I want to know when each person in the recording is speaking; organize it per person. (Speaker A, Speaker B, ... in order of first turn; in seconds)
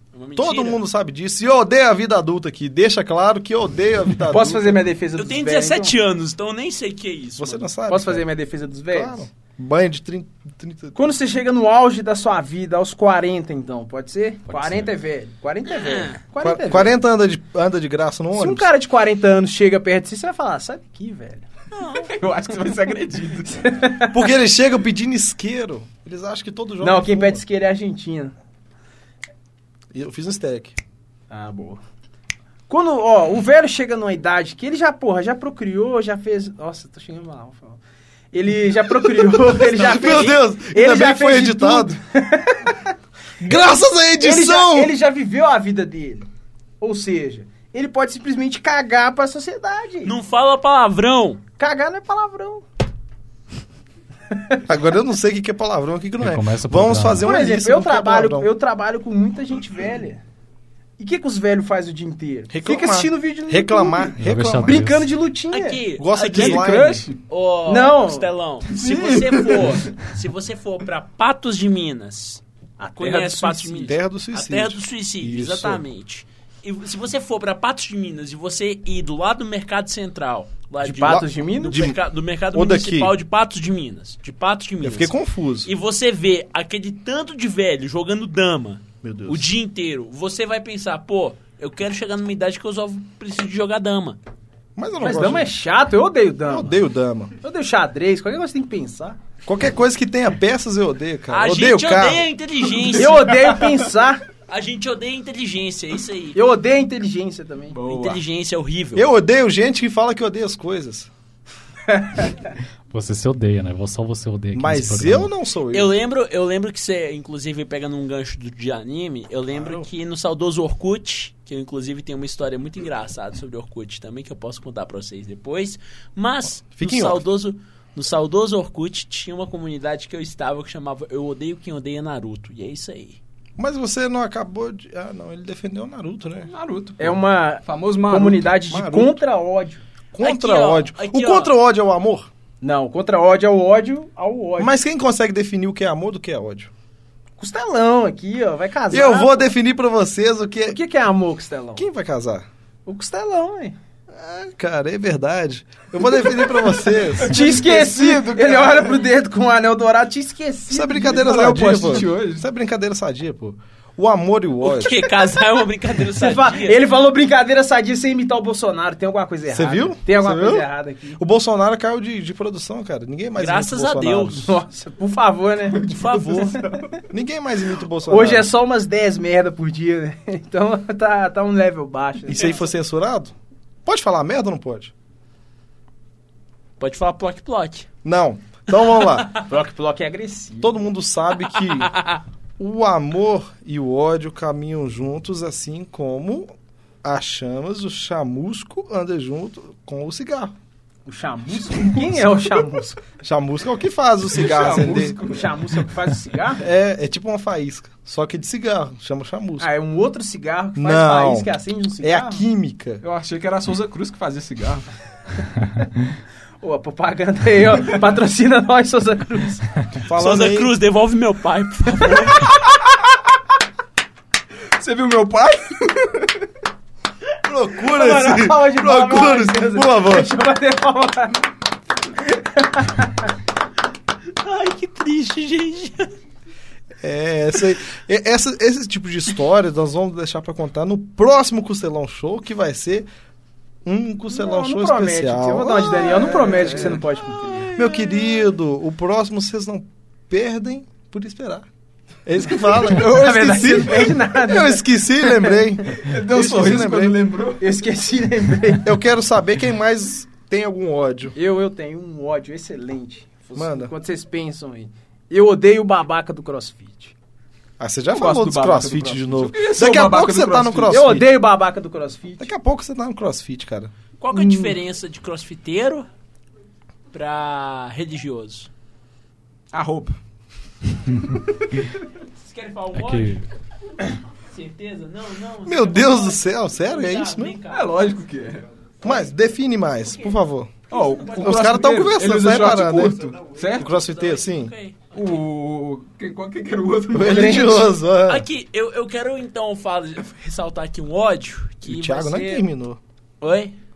Speaker A: 0.1-0.8, 5.2-7.7, 15.7-16.2, 21.7-22.1, 39.9-40.4, 50.0-51.4, 65.5-66.7, 67.3-72.4, 73.0-94.2, 101.3-103.4, 104.5-106.4, 107.8-109.1, 115.7-133.2, 140.2-141.5, 164.6-166.8, 173.4-174.5, 175.8-176.6, 186.8-187.9, 191.8-192.2, 220.2-222.6, 234.4-236.1, 274.2-276.1, 277.1-278.7, 282.4-283.4, 284.5-287.9, 290.1-290.4, 290.9-291.9, 293.8-295.4, 298.2-302.6, 303.4-303.7
Speaker B: 0.3-4.9, 7.4-8.3, 8.9-11.0, 16.4-18.7, 24.1-27.4, 29.9-30.8, 39.7-42.0, 43.4-44.9, 54.7-58.5, 62.5-64.8, 66.0-67.1, 73.8-75.8, 81.0-82.0, 82.5-83.1, 84.8-85.7, 89.0-89.5, 94.8-95.5, 96.5-97.3, 99.5-102.3, 108.9-111.1, 114.5-115.9, 126.7-127.2, 133.6-136.5, 138.7-139.2, 140.1-142.3, 144.6-146.7, 148.9-150.8, 151.8-152.5, 154.1-157.5, 160.7-165.1, 169.5-174.5, 177.1-178.5, 182.3-183.3, 183.8-184.9, 188.0-189.3, 190.6-191.9, 192.6-196.5, 197.0-200.5, 203.2-205.2, 206.6-209.7, 210.7-213.0, 220.0-220.7, 227.4-230.3, 237.0-243.1, 243.8-247.0, 247.7-251.7, 252.2-257.2, 258.8-261.3, 263.6-263.9, 267.8-271.2, 272.4-273.9, 285.6-287.6, 289.0-290.7, 291.4-294.7, 297.1-298.4, 301.8-303.0
Speaker C: 4.3-5.9, 7.9-9.3, 10.9-17.0, 18.3-21.4, 23.6-24.1, 26.8-28.3, 31.3-31.8, 32.7-37.8, 38.3-42.9, 44.2-46.3, 46.8-50.1, 51.6-52.6, 54.3-54.6, 57.2-60.2, 61.0-65.8, 67.7-68.3, 72.8-73.9, 80.8-81.8, 95.0-96.8, 97.4-99.2, 103.0-104.2, 106.3-107.8, 111.9-112.3, 137.0-139.8, 142.6-144.7, 147.4-149.5, 150.7-151.9, 152.8-153.8, 157.2-161.4, 166.1-171.2, 174.4-176.8, 178.0-182.6, 189.4-190.8, 201.1-203.0, 205.2-206.6, 209.6-212.4, 216.6-219.7, 227.9-231.4, 232.2-233.3, 244.3-247.7, 252.7-255.6, 257.6-258.9, 261.3-267.1, 270.9-272.5, 274.3-274.8, 297.2-297.8
Speaker D: 14.5-14.9, 56.2-57.3, 64.2-65.1, 112.9-115.3, 282.9-283.4
Speaker E: 22.0-23.6, 66.3-67.2, 68.7-69.9, 107.7-108.2, 136.5-138.5, 157.2-159.0, 161.1-162.4, 175.9-176.5, 204.4-205.5, 213.0-214.8, 224.8-226.4, 246.6-246.9, 256.0-257.6, 268.1-271.0, 279.7-280.2, 287.7-288.6, 290.9-293.9, 295.1-297.8